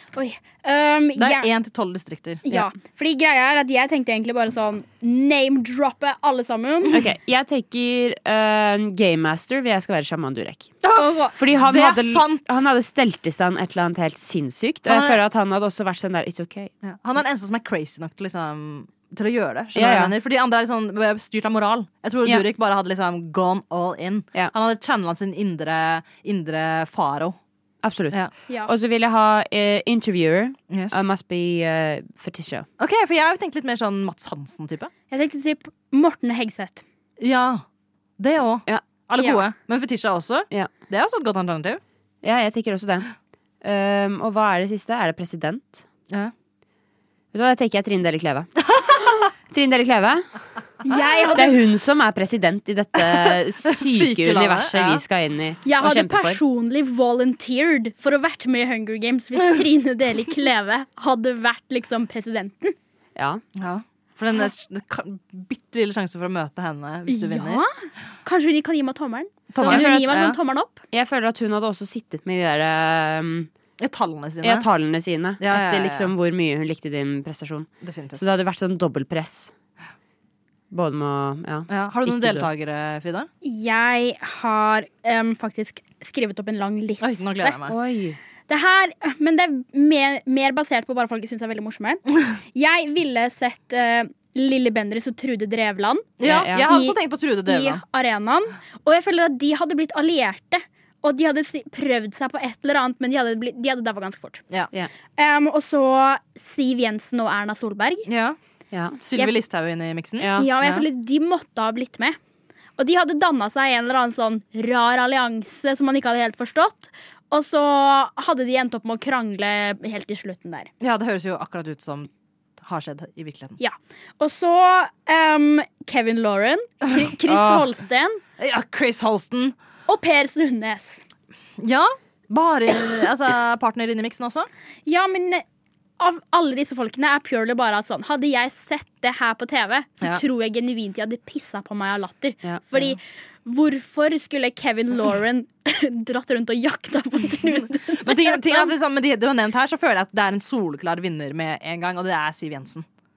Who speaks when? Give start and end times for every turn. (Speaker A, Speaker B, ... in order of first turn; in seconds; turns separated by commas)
Speaker A: 0.1-1.5, Speaker B: 1.2-2.4, Speaker A: 2.5-7.0, Speaker C: 6.9-16.7, Speaker B: 10.8-12.6, Speaker A: 10.9-11.3, Speaker B: 14.9-15.2, Speaker B: 16.8-27.4, Speaker C: 19.7-20.1, Speaker C: 27.8-32.7, Speaker B: 30.7-31.0, Speaker B: 32.8-34.9, Speaker A: 35.1-36.8, Speaker B: 37.2-37.6, Speaker B: 38.2-41.8, Speaker C: 42.2-43.1, Speaker C: 43.6-45.9, Speaker C: 47.3-48.5, Speaker B: 48.7-49.2, Speaker C: 49.5-50.3, Speaker A: 50.8-51.6, Speaker B: 50.9-51.3, Speaker C: 51.3-56.4, Speaker B: 53.0-55.0, Speaker A: 55.6-62.7, Speaker C: 63.1-63.4, Speaker B: 63.5-67.6, Speaker A: 67.1-70.8, Speaker B: 69.5-70.4, Speaker C: 69.6-70.2, Speaker C: 70.9-73.5, Speaker B: 73.8-74.7, Speaker C: 74.4-79.5, Speaker B: 75.4-76.1, Speaker B: 77.8-78.4, Speaker C: 80.7-82.5, Speaker B: 81.7-83.3, Speaker A: 83.4-87.5, Speaker B: 87.0-87.8, Speaker C: 87.7-88.2, Speaker A: 88.5-104.4, Speaker B: 96.2-97.8, Speaker C: 96.2-96.7, Speaker A: 105.2-108.1, Speaker B: 108.1-108.4, Speaker C: 108.7-109.0, Speaker B: 109.0-110.8, Speaker C: 110.2-110.5, Speaker A: 110.4-112.2, Speaker A: 112.8-120.7, Speaker B: 120.8-123.6, Speaker A: 123.6-128.2, Speaker C: 127.3-127.6, Speaker B: 128.4-129.5, Speaker A: 129.9-131.0, Speaker B: 131.6-134.5, Speaker A: 134.8-135.4, Speaker A: 136.0-148.7, Speaker C: 142.4-142.9, Speaker B: 148.0-152.8